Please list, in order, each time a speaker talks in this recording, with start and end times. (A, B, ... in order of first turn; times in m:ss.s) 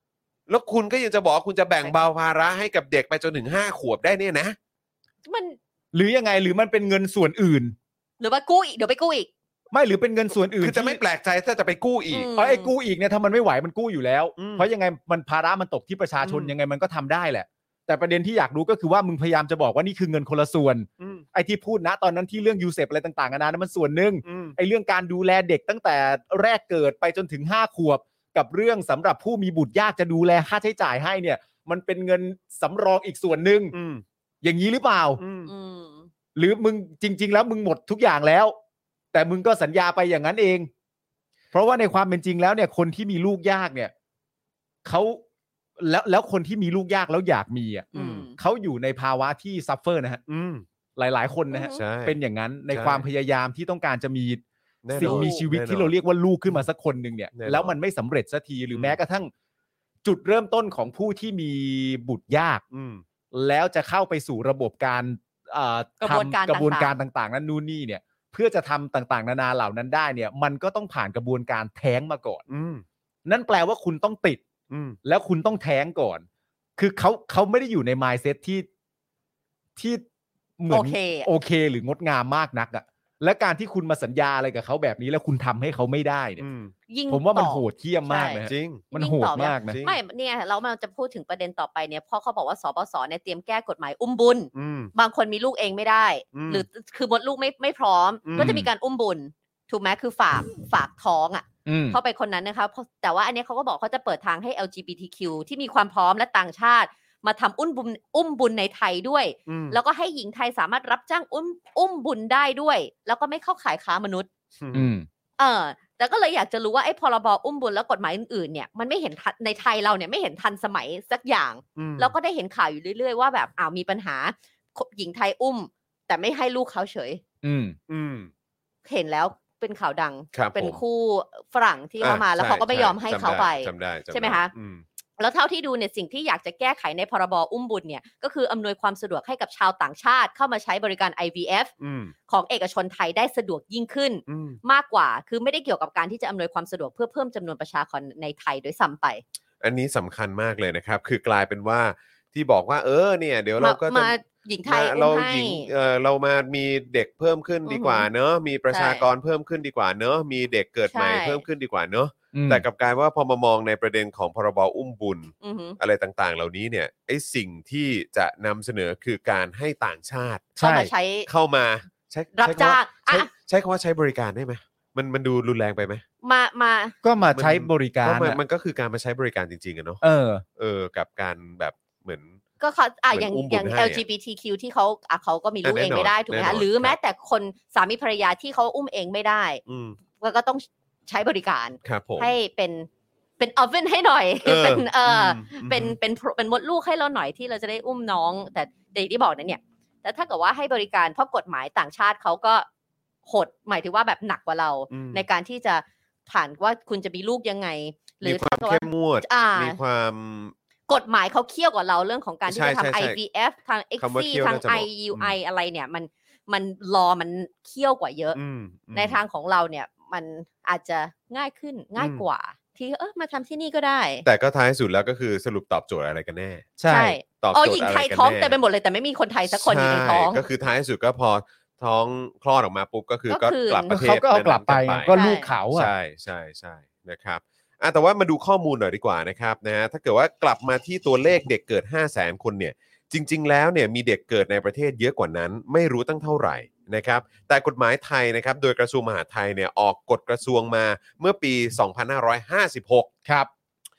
0:00.5-0:04.6 A
0:05.2-0:05.6 B
0:05.9-0:07.7 C
0:08.2-0:09.3 B
0:09.7-0:11.0 C
0:10.6-0:12.3 A
0:12.1-0:12.7 B
0:12.4-0:33.7 C
0:14.4-0:14.7 A
0:21.0-0:21.2 A
0:24.2-0:24.6 A
0:33.7-0:34.0 A
0:34.4-0:35.2 C
0:35.2-0:35.5 A
0:35.4-0:36.1 B
0:36.3-0:38.6 C
0:39.1-0:40.7 C
0:41.5-0:43.9 C
0:44.8-0:45.2 C
0:45.8-0:50.2 C
0:47.9-0:48.4 B
0:47.9-0:48.3 A
0:50.3-0:50.6 A
0:51.0-0:54.4 C
0:51.5-0:51.8 B
0:51.7-0:52.2 A
0:52.7-0:53.0 A
0:54.8-0:55.9 A
0:54.9-0:59.3 C
0:55.0-0:55.4 B
0:57.3-0:57.7 A
0:58.7-0:59.0 A
1:00.0-1:02.6 C
1:02.7-1:03.0 A
1:03.3-1:12.4 C
1:06.0-1:06.9 B
1:12.5-1:12.8 A
1:13.2-1:14.4 C
1:14.7-1:15.0 A
1:15.0-1:16.2 C
1:16.8-1:18.6 C
1:19.8-1:20.0 C
1:20.6-1:26.4 C
1:20.7-1:21.3 B
1:26.4-1:26.7 A
1:26.9-1:54.3 B
1:27.1-1:29.8 C
1:28.4-1:28.8 A
1:29.6-1:30.0 A
1:34.5-1:34.9 A
1:36.3-1:36.6 A
1:38.2-1:38.6 A
1:38.4-1:38.7 C
1:41.6-1:42.0 C
1:49.5-1:49.8 A
1:54.6-1:54.9 A
1:54.7-1:55.1 C
1:55.4-2:07.2 B
2:01.8-2:02.1 A
2:07.4-2:07.8 C
2:07.9-2:08.3 A
2:08.8-2:14.5 B
2:10.3-2:10.8 A
2:12.0-2:14.8 A
2:15.2-2:21.7 B
2:21.8-2:22.1 A
2:22.3-2:29.2 B
2:24.3-2:24.6 A
2:29.6-2:50.6 A
2:33.6-2:35.7 B
2:37.6-2:38.1 B
2:38.7-2:39.0 B
2:40.9-2:41.4 B
2:42.3-2:42.6 C
2:45.4-2:45.8 B
2:50.6-2:50.9 C
2:50.6-2:51.3 B
2:51.2-2:56.0 A
2:52.4-2:53.3 B
2:56.2-2:56.9 B
2:57.0-2:58.4 C
2:57.3-3:00.0 A
3:00.0-3:00.4 C
3:00.6-3:02.4 A
3:02.6-3:09.6 B
3:03.1-3:04.0 A
3:05.6-3:07.0 A
3:09.7-3:10.0 A
3:10.2-3:12.9 B
3:11.8-3:12.3 A
3:13.4-3:22.6 B
3:14.4-3:16.0 A
3:23.2-3:29.8 B
3:24.9-3:25.2 A
3:28.2-3:30.5 A
3:30.9-3:38.4 B
3:32.5-3:33.2 A
3:34.0-3:35.3 A
3:38.3-3:39.2 A
3:38.9-3:44.2 B
3:42.0-3:42.2 A
3:44.2-3:46.7 A
3:46.8-3:47.2 C
3:46.9-3:50.4 B
3:47.4-3:48.6 A
3:49.5-3:55.1 A
3:53.3-3:53.9 B
3:53.9-3:55.9 C
3:55.1-3:55.5 B
3:55.7-4:13.1 A